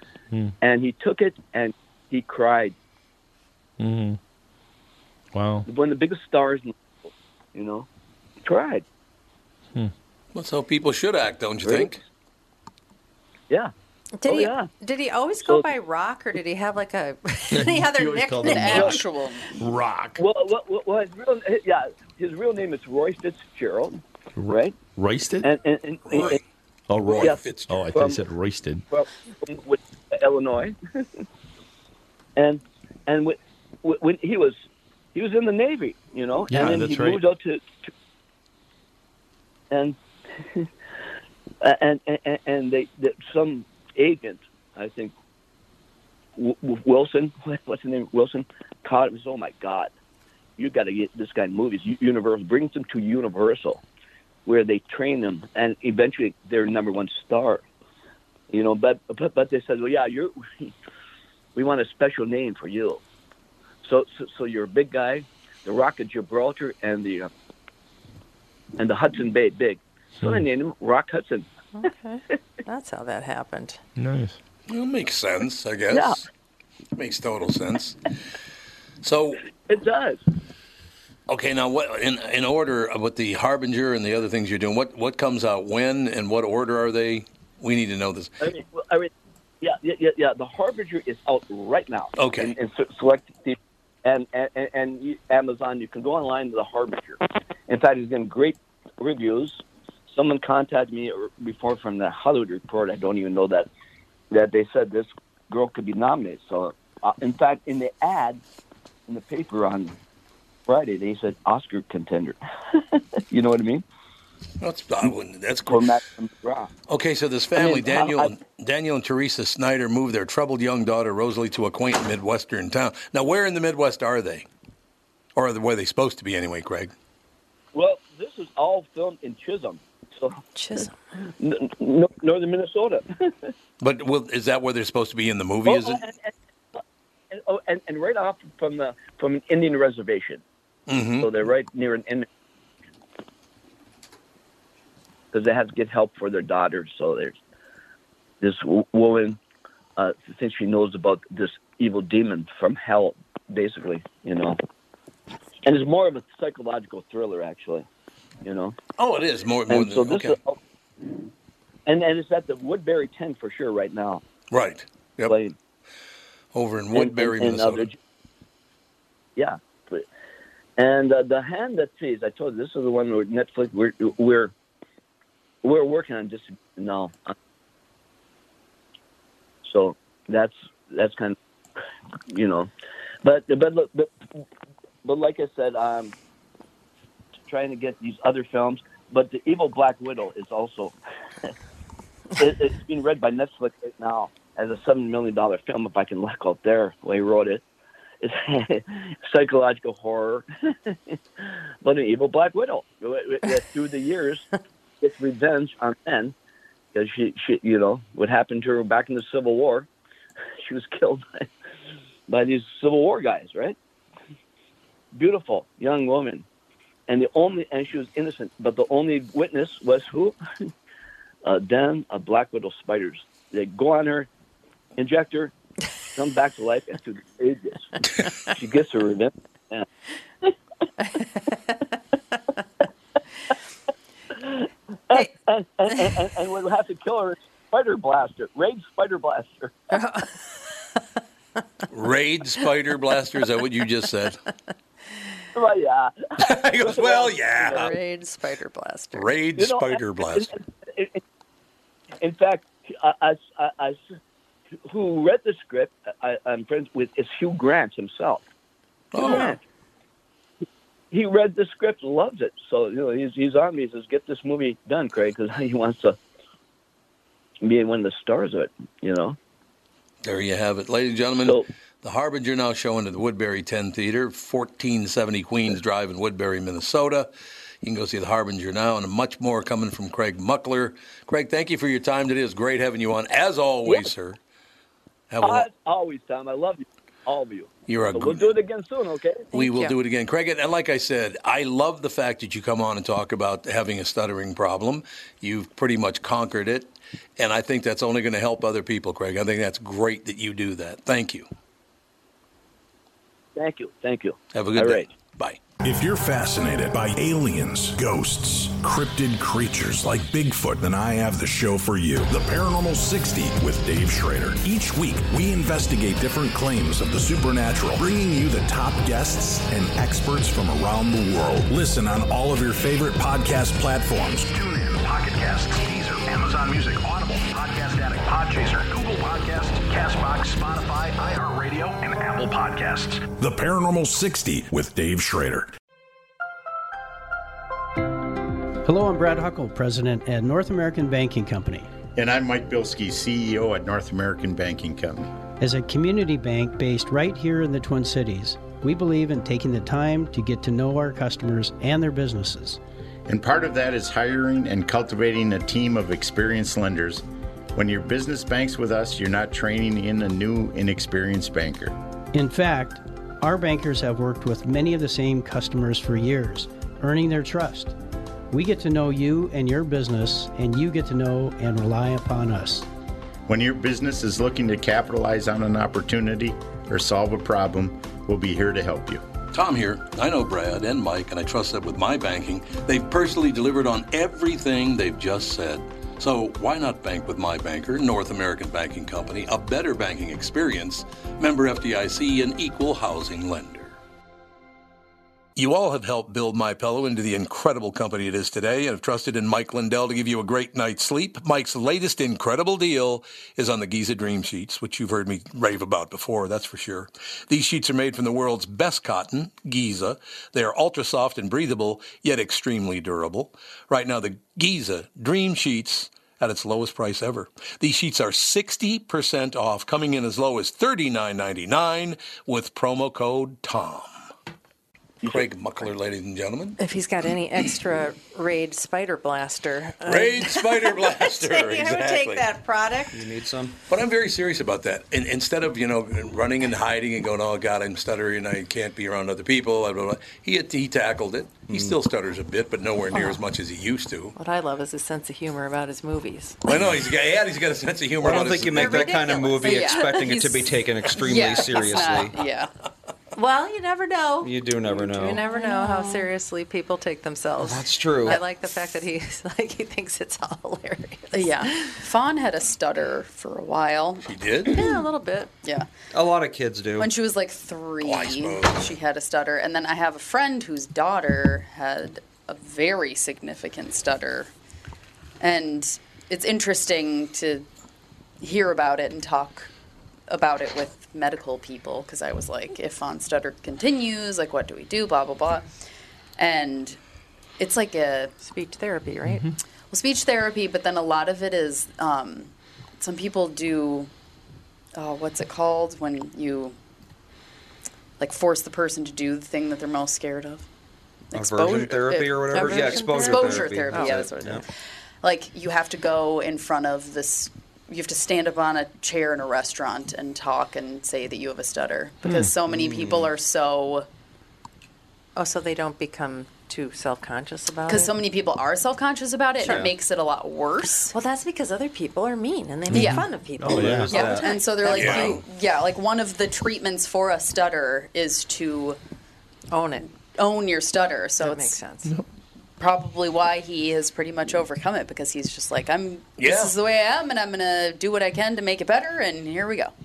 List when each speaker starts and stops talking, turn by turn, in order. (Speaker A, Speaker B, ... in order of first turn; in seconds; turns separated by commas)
Speaker A: 0.6-2.8, Speaker B: 3.8-4.2, Speaker B: 5.3-5.7, Speaker A: 5.7-6.8, Speaker A: 7.5-7.9, Speaker A: 8.4-8.8, Speaker C: 10.3-12.0, Speaker A: 11.6-11.9, Speaker D: 14.2-19.0, Speaker A: 14.2-14.7, Speaker A: 15.4-15.7, Speaker B: 17.5-19.0, Speaker E: 18.4-19.6, Speaker B: 19.5-20.2, Speaker A: 20.2-24.8, Speaker B: 24.4-25.5, Speaker A: 25.4-26.4, Speaker C: 26.1-26.4, Speaker B: 26.9-28.8, Speaker C: 27.0-27.8, Speaker A: 27.1-27.4, Speaker A: 27.9-28.2, Speaker A: 28.9-31.2, Speaker A: 32.4-34.6, Speaker A: 35.1-37.9, Speaker B: 36.5-37.2, Speaker A: 39.7-40.7, Speaker A: 41.6-45.1, Speaker A: 46.4-49.9, Speaker A: 50.6-53.8, Speaker A: 54.5-57.6, Speaker A: 58.5-60.7, Speaker A: 61.5-63.0, Speaker A: 63.8-67.3, Speaker A: 68.8-71.5, Speaker D: 71.8-73.8, Speaker B: 74.0-74.4, Speaker C: 74.7-76.2, Speaker A: 75.9-76.2, Speaker C: 77.0-78.1, Speaker C: 79.0-79.4, Speaker A: 79.7-80.2, Speaker C: 81.3-88.3, Speaker A: 88.4-103.7, Speaker C: 92.2-92.5, Speaker A: 104.3-108.4, Speaker A: 109.1-109.9, Speaker A: 110.7-113.8, Speaker C: 114.6-115.9, Speaker A: 115.7-116.7, Speaker C: 116.9-124.5, Speaker A: 117.5-118.3, Speaker C: 125.3-126.9, Speaker A: 127.7-133.5, Speaker D: 130.5-130.9, Speaker C: 133.8-136.0, Speaker A: 135.6-140.4, Speaker C: 140.9-141.3, Speaker A: 141.2-142.3, Speaker A: 145.3-147.4, Speaker A: 148.4-149.4, Speaker A: 150.0-154.6, Speaker A: 155.6-157.8, Speaker A: 158.4-158.8, Speaker C: 159.0-160.4, Speaker A: 159.7-160.6, Speaker A: 161.8-164.2, Speaker C: 164.5-165.3, Speaker A: 165.2-165.5, Speaker C: 166.5-167.9, Speaker A: 166.9-168.0, Speaker A: 169.4-170.1, Speaker A: 170.8-174.5, Speaker A: 175.6-177.3, Speaker A: 179.6-181.4, Speaker A: 182.3-182.7, Speaker A: 183.2-184.1, Speaker A: 185.0-186.1, Speaker A: 187.5-191.5, Speaker A: 192.4-197.6, Speaker A: 198.2-204.5, Speaker A: 205.0-206.3, Speaker A: 206.9-209.9, Speaker A: 210.6-211.5, Speaker A: 212.3-213.8, Speaker A: 215.1-216.4, Speaker A: 217.1-220.7, Speaker A: 221.4-224.3, Speaker A: 225.0-225.5, Speaker A: 226.1-229.9, Speaker A: 234.3-239.7, Speaker D: 239.9-240.4, Speaker C: 241.9-244.4, Speaker A: 245.5-247.9, Speaker C: 246.4-247.9, Speaker D: 247.6-249.3, Speaker C: 249.1-250.5, Speaker A: 249.6-251.2, Speaker A: 252.2-254.0, Speaker A: 254.8-258.4, Speaker C: 259.1-259.6, Speaker A: 259.2-259.6, Speaker D: 259.2-259.6, Speaker A: 261.1-266.2, Speaker A: 267.6-269.4, Speaker C: 270.2-277.3, Speaker C: 277.8-284.4, Speaker A: 283.9-284.1, Speaker C: 285.3-285.7, Speaker A: 285.4-289.5, Speaker C: 287.9-288.5, Speaker D: 289.5-289.9, Speaker C: 289.5-301.4, Speaker A: 303.6-305.1, Speaker C: 304.5-305.6, Speaker F: 305.8-335.7, Speaker G: 338.8-341.9, Speaker H: 342.1-345.3, Speaker G: 345.6-352.8, Speaker H: 353.3-357.2, Speaker H: 357.7-361.9, Speaker G: 362.3-367.9, Speaker G: 368.5-372.9, Speaker H: 373.5-379.2, Speaker C: 379.5-393.9, Speaker C: 395.6-424.1, Speaker C: 425.2-426.8, Speaker D: 426.8-433.2, Speaker C: 430.0-432.4, Speaker I: 433.1-433.8, Speaker C: 433.9-444.3, Speaker I: 441.7-442.0, Speaker D: 443.1-443.4, Speaker D: 444.4-446.6, Speaker C: 446.6-449.0, Speaker I: 448.2-452.4, Speaker D: 448.5-450.2, Speaker E: 449.6-452.7, Speaker D: 453.3-461.9, Speaker I: 454.4-455.5, Speaker E: 455.5-456.2, Speaker I: 457.6-458.4, Speaker E: 461.3-465.0, Speaker C: 464.2-464.8, Speaker D: 464.6-465.5, Speaker I: 466.1-467.1, Speaker E: 467.0-474.5, Speaker C: 468.0-468.9, Speaker E: 475.4-477.7, Speaker E: 478.4-479.7, Speaker E: 480.3-485.6, Speaker E: 486.4-487.0, Speaker E: 487.6-488.3, Speaker D: 488.4-489.5, Speaker B: 489.2-489.5, Speaker E: 489.9-494.1, Speaker E: 494.9-496.8, Speaker E: 498.2-500.6, Speaker E: 501.3-504.6, Speaker I: 501.3-504.6, Speaker D: 502.5-504.2, Speaker E: 505.2-514.1, Speaker B: 512.2-512.5, Speaker I: 512.7-513.3, Speaker D: 515.4-518.1, Speaker E: 517.9-521.1, Speaker D: 519.6-519.9, Speaker I: 519.6-519.9, Speaker D: 521.1-525.4, Speaker B: 522.9-524.2, Speaker E: 522.9-523.3, Speaker I: 523.6-524.6, Speaker E: 524.1-529.0, Speaker C: 524.9-525.4, Speaker D: 529.7-530.1, Speaker E: 530.3-531.8, Speaker D: 531.4-532.1, Speaker E: 532.8-539.9, Speaker C: 536.4-536.7